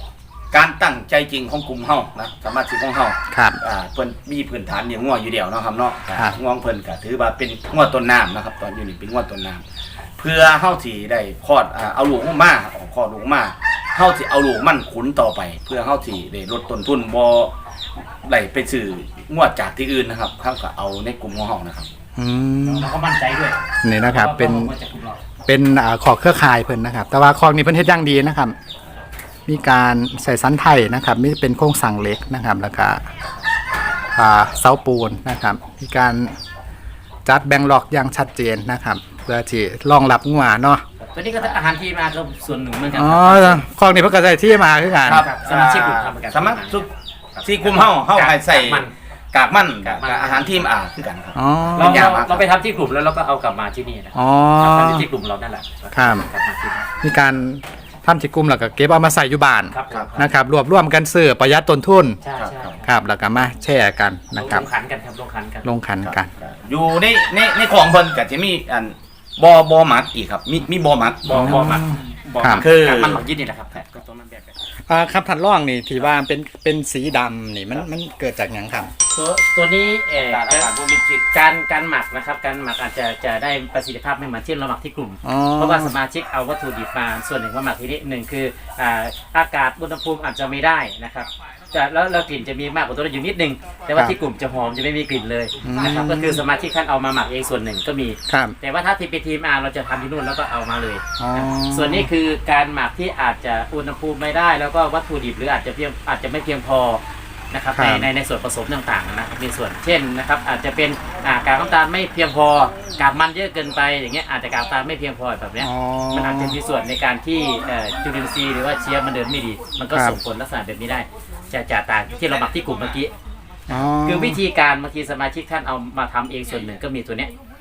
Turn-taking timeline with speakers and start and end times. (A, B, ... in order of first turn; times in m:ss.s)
0:00.5-0:09.6 A
0:03.3-0:03.6 B
0:10.2-0:17.5 A
0:18.2-0:21.9 A
0:22.2-0:22.9 B
0:22.6-0:25.2 C
0:23.8-0:24.7 B
0:25.5-0:28.6 B
0:29.5-0:33.0 B
0:34.2-0:36.4 B
0:37.2-0:40.8 B
0:41.0-0:43.6 C
0:42.9-0:45.3 B
0:45.0-0:46.9 A
0:45.1-0:46.8 C
0:47.4-0:48.9 C
0:47.4-0:52.5 A
0:49.8-0:50.7 C
0:51.4-0:52.1 B
0:51.8-0:56.9 C
0:54.2-0:55.1 B
0:55.9-0:56.3 B
0:57.0-1:02.2 B
0:59.7-1:00.3 C
1:02.2-1:03.0 C
1:02.4-1:02.7 A
1:02.8-1:04.7 B
1:04.4-1:05.7 C
1:05.6-1:06.3 B
1:06.0-1:11.7 A
1:11.2-1:14.6 C
1:11.3-1:12.7 B
1:12.4-1:13.2 A
1:14.9-1:18.9 B
1:19.1-1:20.7 C
1:20.2-1:21.3 A
1:21.3-2:03.1 C
1:25.2-1:25.9 B
1:35.6-1:36.4 B
1:38.3-1:38.6 B
1:41.2-1:42.1 B
1:47.8-1:48.1 B
1:55.6-1:56.6 B
2:03.7-2:04.4 B
2:03.7-2:07.3 C